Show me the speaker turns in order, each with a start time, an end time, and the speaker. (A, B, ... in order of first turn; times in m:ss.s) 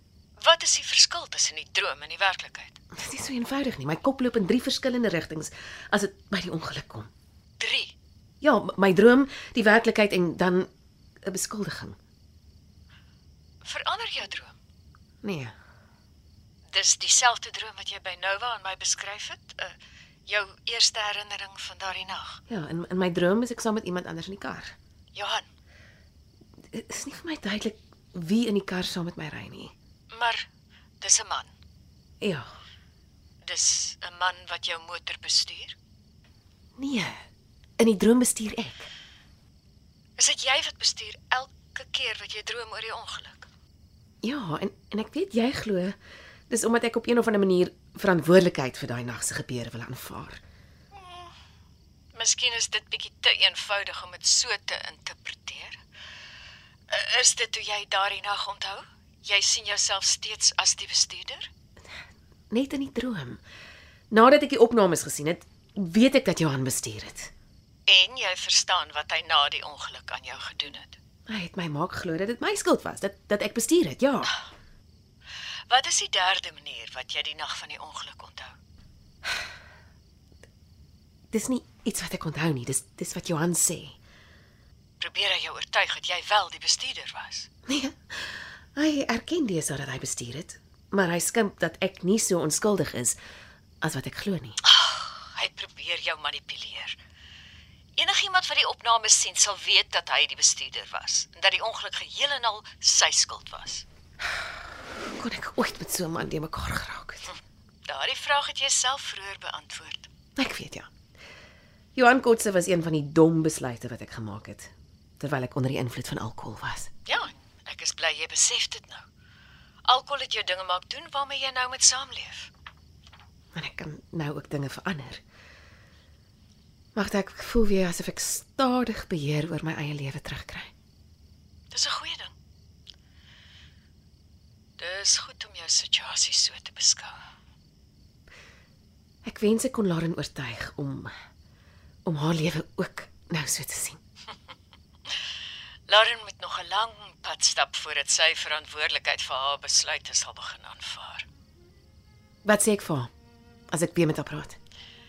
0:00.4-0:02.8 A
0:02.9-0:07.1 B
0:07.6-0:07.9 A
0:08.4-0:10.7 B
0:11.2-0:12.0 B
0:13.6-0:14.6 A
0:15.2-0:15.5 B
0:16.7-0:19.7 A
0:20.3-0:22.4 A
0:22.5-0:24.7 B
0:25.1-0:25.4 A
0:26.7-0:29.7 B
0:30.1-0:30.5 A
0:31.0-0:31.5 A
0:32.2-0:32.5 B
0:33.4-0:35.8 A
0:36.8-0:37.2 B
0:37.8-0:38.9 B
0:40.2-0:43.5 A
0:44.2-0:46.0 B
0:46.5-0:50.4 B
0:51.0-0:51.3 A
0:52.1-0:55.8 A
0:56.9-1:01.5 A
1:02.5-1:03.4 B
1:04.1-1:07.3 B
1:07.9-1:11.0 A
1:11.3-1:14.3 B
1:15.7-1:18.5 A
1:21.3-1:24.0 B
1:25.0-1:27.5 A
1:27.7-1:33.2 B
1:33.8-1:34.6 B
1:34.6-1:37.0 A
1:38.0-1:43.8 A
1:45.1-1:47.3 B
1:47.8-1:50.1 A
1:50.4-1:50.9 B
1:52.0-1:56.9 B
1:57.0-1:59.0 A
1:59.8-2:02.5 A
2:03.5-2:05.2 B
2:06.9-2:10.7 B
2:11.7-2:12.3 A
2:14.8-2:17.2 A
2:19.2-2:21.1 B
2:22.0-2:24.0 B
2:25.9-2:31.3 A
2:32.4-2:33.1 B
2:33.7-2:34.6 B